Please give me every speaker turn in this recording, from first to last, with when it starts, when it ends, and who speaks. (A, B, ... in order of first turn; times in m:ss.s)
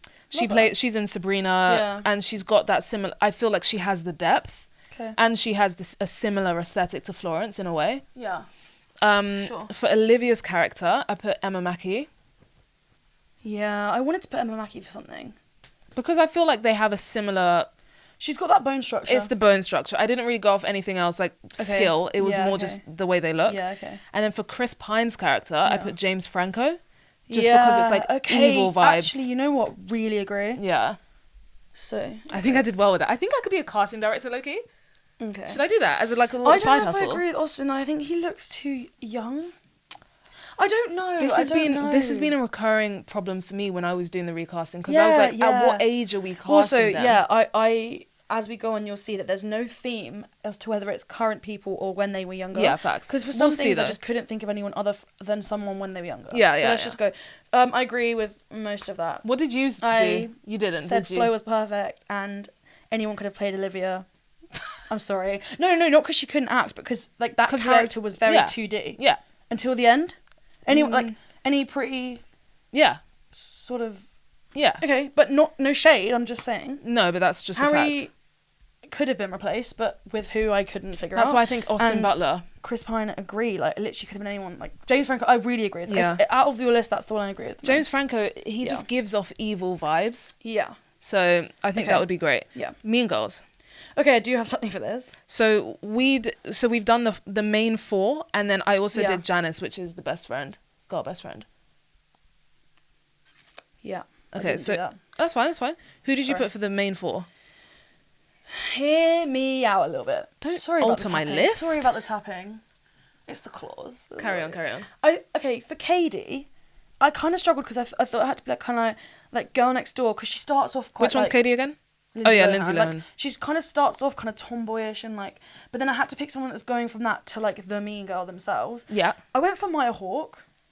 0:00.3-0:04.6 A
0:00.3-0:00.7 B
0:01.7-0:02.0 B
0:05.2-0:08.0 A
0:08.1-0:08.4 B
0:09.0-0:12.1 A
0:09.3-0:09.7 B
0:13.4-0:15.4 B
0:15.9-0:17.7 A
0:18.2-0:19.3 B
0:19.1-0:26.8 A
0:21.6-0:22.8 B
0:23.4-0:24.0 B
0:25.6-0:25.9 B
0:27.3-0:30.6 B
0:27.3-0:29.2 A
0:30.6-0:31.0 A
0:31.7-0:32.6 B
0:32.3-0:34.6 A
0:35.2-0:35.6 B
0:35.5-0:37.2 A
0:36.4-0:39.5 B
0:40.6-0:42.3 B
0:41.2-0:47.2 A
0:44.8-0:45.8 B
0:46.4-0:59.2 B
0:52.5-0:54.0 A
0:56.3-0:57.0 A
0:59.2-1:01.3 A
0:59.8-1:04.0 B
1:04.9-1:09.0 B
1:07.5-1:09.2 A
1:09.5-1:12.2 B
1:10.7-1:11.1 A
1:12.7-1:13.0 A
1:13.3-1:14.0 B
1:14.5-1:14.8 A
1:14.8-1:16.8 B
1:16.8-1:18.0 A
1:17.5-1:18.1 B
1:18.9-1:27.9 B
1:21.1-1:22.4 A
1:25.9-1:26.2 A
1:27.6-1:30.3 A
1:30.4-1:30.7 B
1:31.0-1:33.4 A
1:31.7-1:32.7 B
1:34.0-1:35.1 B
1:35.3-1:41.4 A
1:38.9-1:39.2 B
1:43.8-1:45.0 B
1:44.3-1:47.3 A
1:48.5-1:52.6 B
1:50.4-1:51.9 A
1:53.3-1:56.5 B
1:54.2-1:54.9 A
1:57.0-2:01.4 B
2:01.0-2:03.0 A
2:02.1-2:10.4 B
2:08.9-2:09.2 A